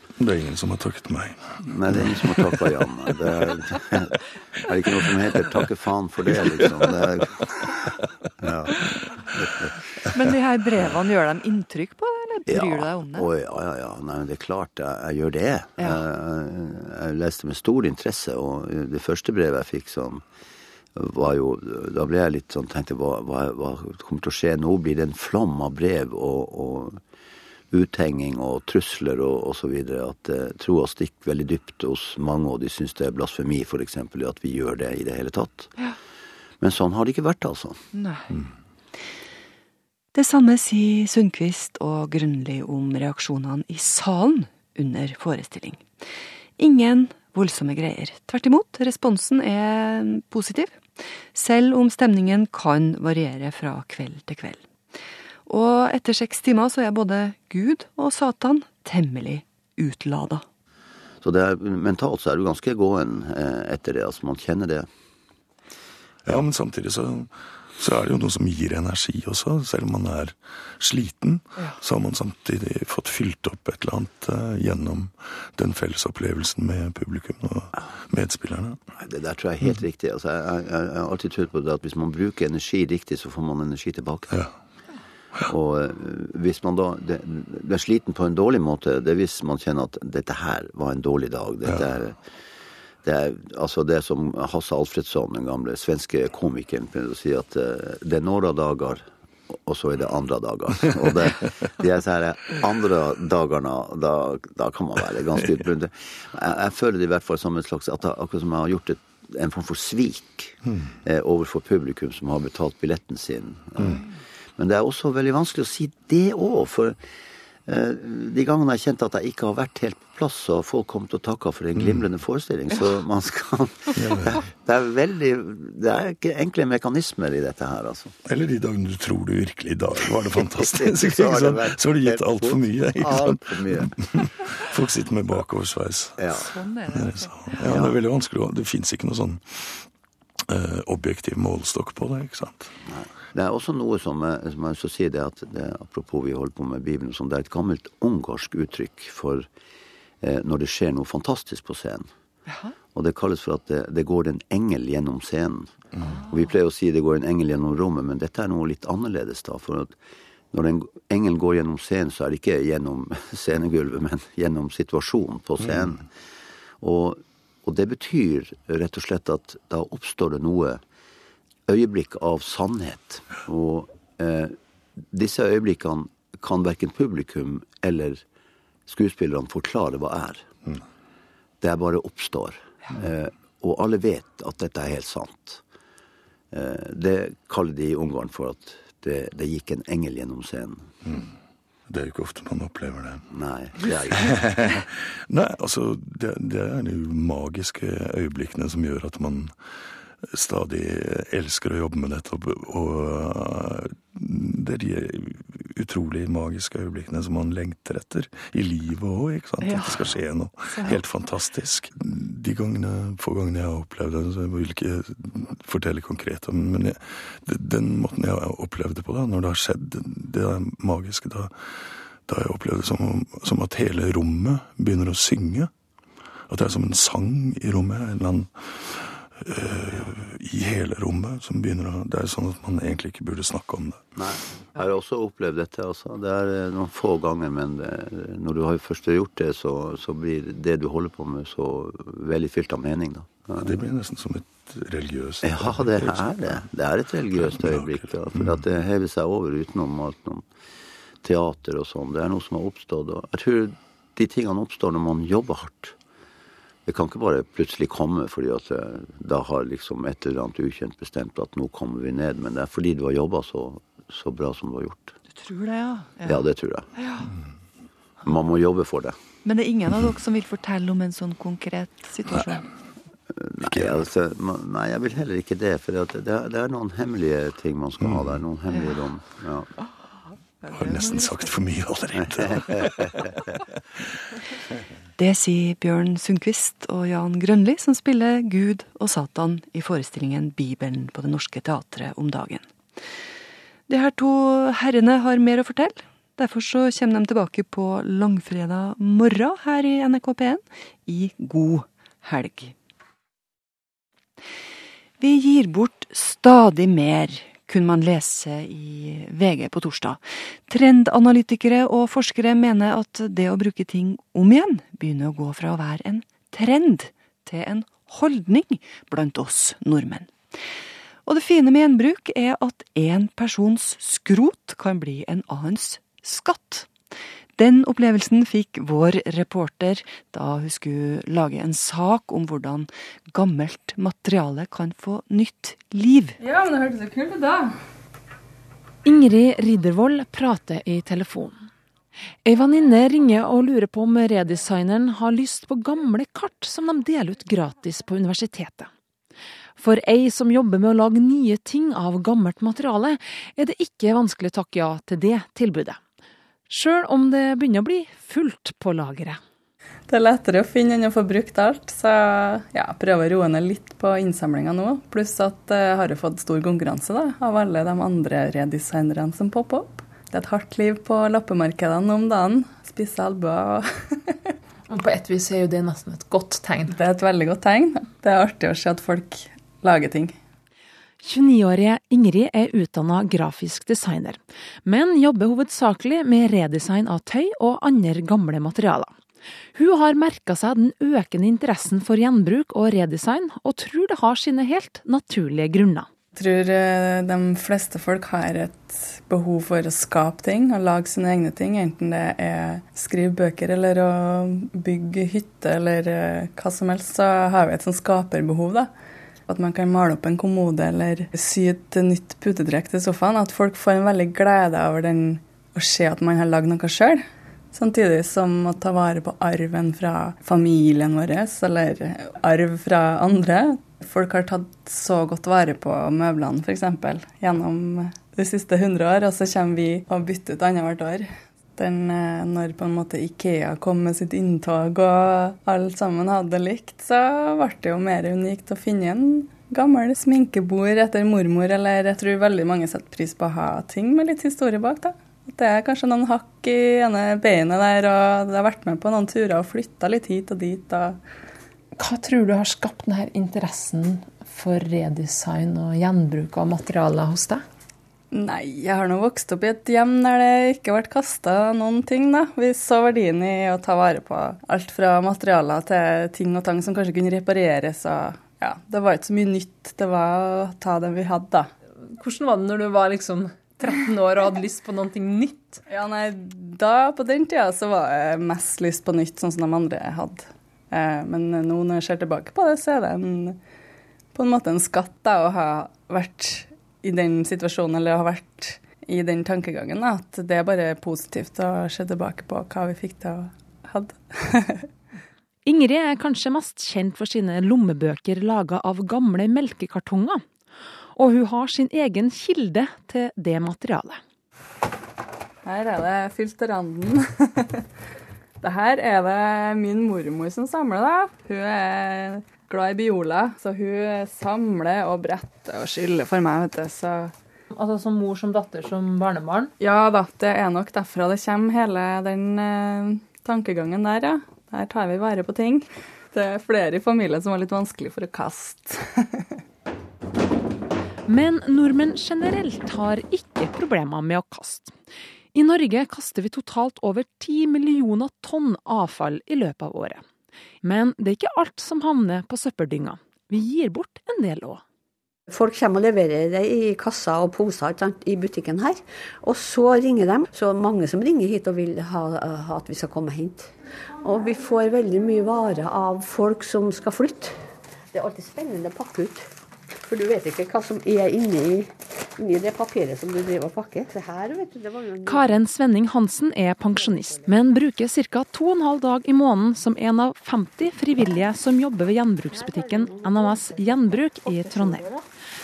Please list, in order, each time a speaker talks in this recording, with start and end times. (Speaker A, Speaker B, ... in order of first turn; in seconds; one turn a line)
Speaker A: 0.2-2.7
Speaker B: 1.6-7.7
Speaker B: 8.4-9.7
Speaker C: 10.1-13.3
Speaker B: 12.5-20.2
Speaker B: 20.9-27.0
Speaker B: 27.7-35.7
Speaker B: 36.6-37.8
Speaker C: 37.9-38.3
Speaker C: 40.1-45.9
Speaker C: 46.6-54.6
Speaker C: 55.5-60.4
Speaker B: 61.2-64.9
Speaker A: 66.2-78.8
Speaker B: 79.0-84.4
Speaker B: 85.5-92.2
Speaker B: 93.0-114.0
Speaker A: 110.7-110.9
Speaker B: 114.6-117.0
Speaker B: 117.7-128.1
Speaker A: 121.8-122.1
Speaker A: 124.0-124.4
Speaker A: 128.2-136.3
Speaker B: 130.2-133.9
Speaker B: 136.2-136.5
Speaker C: 136.4-137.6
Speaker A: 136.9-139.9
Speaker B: 137.6-138.0
Speaker A: 140.5-142.7
Speaker B: 142.8-149.5
Speaker B: 150.2-152.1
Speaker C: 152.5-152.7
Speaker B: 152.9-155.7
Speaker C: 156.1-156.3
Speaker B: 156.3-159.9
Speaker B: 160.5-166.1
Speaker B: 166.8-170.8
Speaker B: 171.7-174.6
Speaker B: 175.1-178.2
Speaker B: 178.9-180.4
Speaker B: 181.6-185.6
Speaker B: 186.5-190.9
Speaker A: 191.0-191.3
Speaker A: 191.9-193.3
Speaker B: 193.3-194.7
Speaker A: 193.8-199.6
Speaker A: 200.2-225.7
Speaker C: 209.6-210.1
Speaker A: 226.5-234.1
Speaker B: 234.2-243.7
Speaker A: 243.6-246.7
Speaker B: 245.4-250.4
Speaker A: 247.3-248.6
Speaker B: 251.2-255.9
Speaker B: 256.9-265.1
Speaker C: 265.3-267.3
Speaker B: 266.2-266.9
Speaker B: 268.2-269.1
Speaker C: 269.4-272.6
Speaker B: 273.3-279.7
Speaker A: 273.6-274.0
Speaker A: 278.1-278.4
Speaker C: 280.6-281.5
Speaker A: 280.7-283.4
Speaker C: 285.2-292.7
Speaker C: 293.9-302.7
Speaker C: 305.2-320.3
Speaker C: 321.2-326.9
Speaker C: 327.6-336.4
Speaker D: 336.4-337.7
Speaker E: 339.0-341.6
Speaker E: 342.4-348.9
Speaker E: 349.8-356.0
Speaker E: 356.7-359.4
Speaker D: 360.1-374.3
Speaker F: 374.9-376.9
Speaker D: 376.9-380.4
Speaker E: 381.2-389.1
Speaker E: 389.7-396.1
Speaker D: 396.3-408.9
Speaker D: 409.5-451.2
Speaker F: 451.9-457.6
Speaker D: 458.3-471.7
Speaker F: 472.0-475.8
Speaker D: 475.9-483.6
Speaker D: 484.3-494.9
Speaker E: 495.6-500.4
Speaker E: 501.1-504.2
Speaker D: 505.6-507.7
Speaker D: 508.6-517.3
Speaker F: 517.7-519.7
Speaker D: 519.8-529.4
Speaker E: 531.3-534.9
Speaker E: 535.5-540.2
Speaker E: 540.8-544.8
Speaker G: 545.5-553.7
Speaker G: 554.2-557.6
Speaker G: 558.1-559.5
Speaker G: 560.0-565.6
Speaker E: 565.2-575.0
Speaker G: 567.0-567.5
Speaker G: 572.5-575.2